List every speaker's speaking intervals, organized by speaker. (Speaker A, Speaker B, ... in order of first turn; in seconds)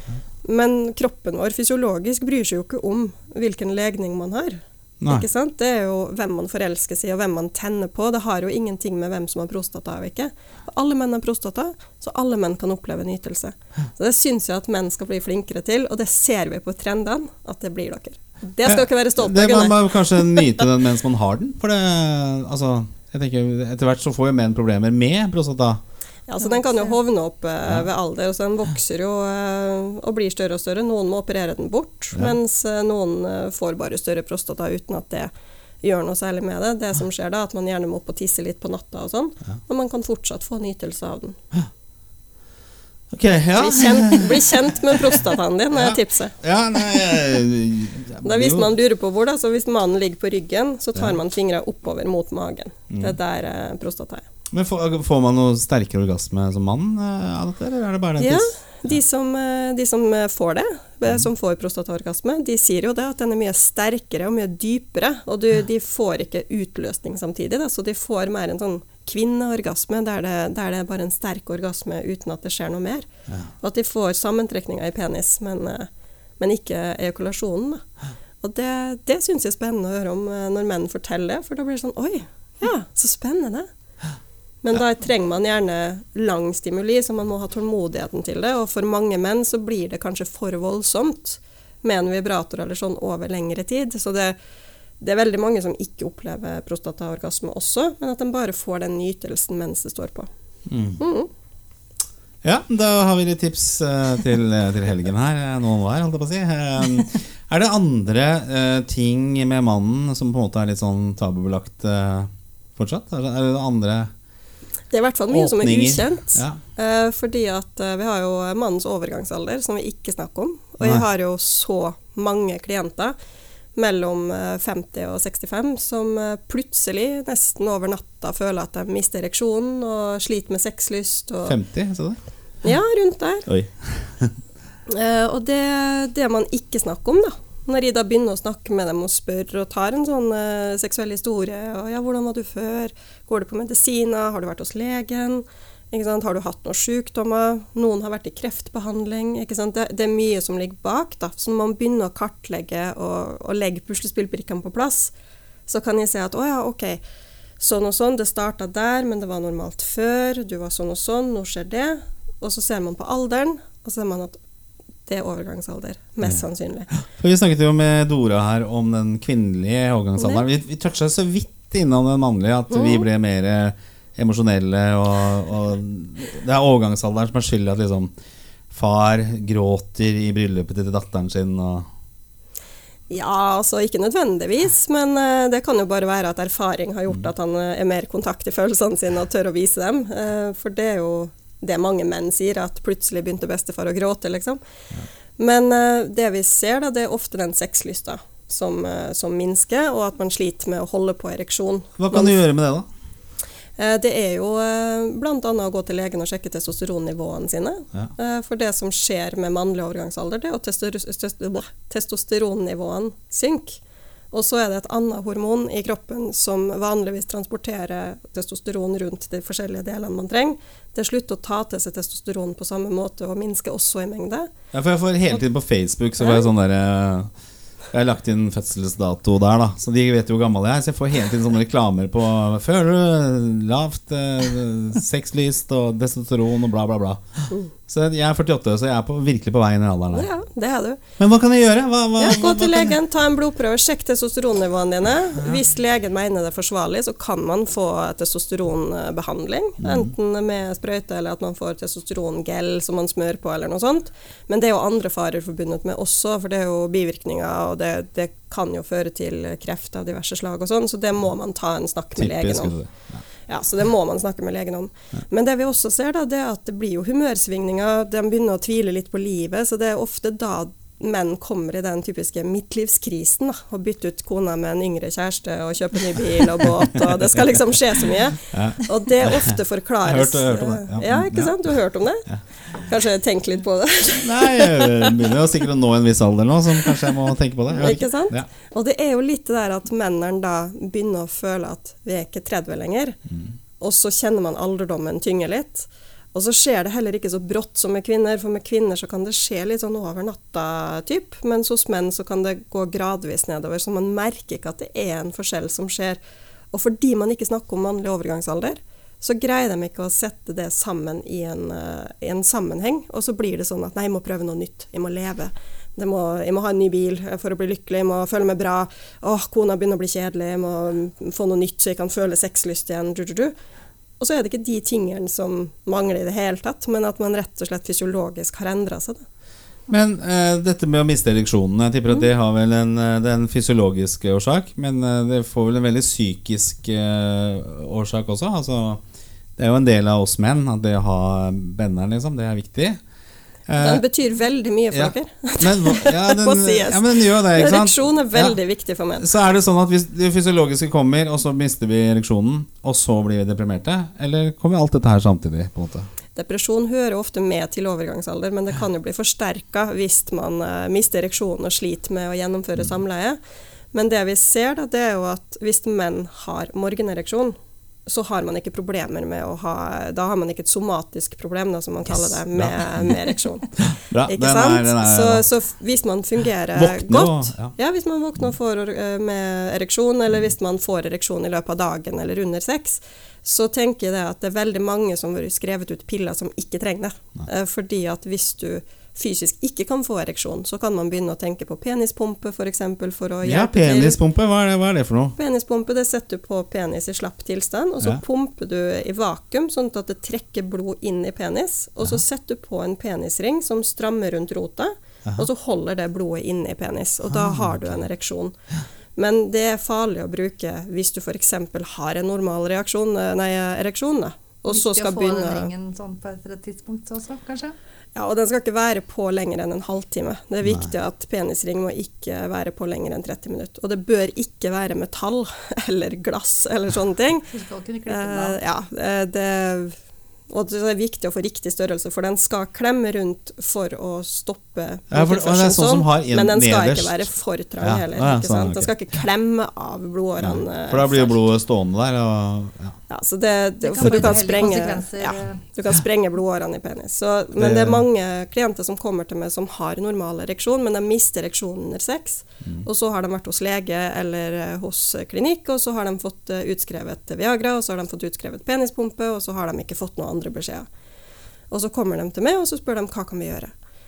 Speaker A: 0.4-20.6, 26.3-35.3, 35.8-41.4, 43.6-46.4, 48.2-54.2, 58.2-73.1, 73.6-77.8, 78.4-83.7, 84.6-94.4, 95.0-100.3, 101.0-101.3, 114.9-123.2, 123.8-131.6, 132.6-133.5, 134.9-155.1, 155.7-157.0, 157.6-164.4, 165.1-166.9, 170.2-170.4, 172.7-173.1, 183.1-194.6, 195.4-202.4, 203.8-213.8, 214.3-224.5, 240.1-241.0, 242.2-262.8, 263.5-282.3, 282.9-285.2, 287.7-293.2, 293.8-306.2, 306.7-323.5, 324.2-329.2, 343.8-349.3, 356.4-363.4, 363.9-367.6, 368.1-394.2, 395.4-408.6, 409.2-415.7, 418.1-427.5, 428.1-430.0, 430.5-441.4, 443.1-460.9, 461.7-463.7
Speaker B: 5.0-5.3, 18.7-25.8, 43.1-44.4, 45.7-48.7, 52.9-53.2, 54.5-59.0, 100.7-101.0, 102.4-114.1, 115.3-116.6, 120.8-121.1, 131.4-132.2, 133.5-134.3, 167.0-178.1, 178.7-181.9, 202.0-202.9, 224.7-227.3, 227.9-240.3, 241.2-242.9, 249.8-250.1, 262.2-263.2, 278.5-281.6, 284.2-288.5, 329.9-339.0, 339.6-343.0, 343.7-344.0, 344.9-348.6, 349.2-356.1, 372.1-375.4, 376.7-377.7, 393.4-395.4, 407.3-408.1, 420.6-420.9, 435.1-437.3, 437.8-438.9, 440.4-443.0, 444.0-444.4, 447.6-448.0
Speaker C: 26.4-26.9, 414.7-417.8, 427.5-428.6, 443.8-445.6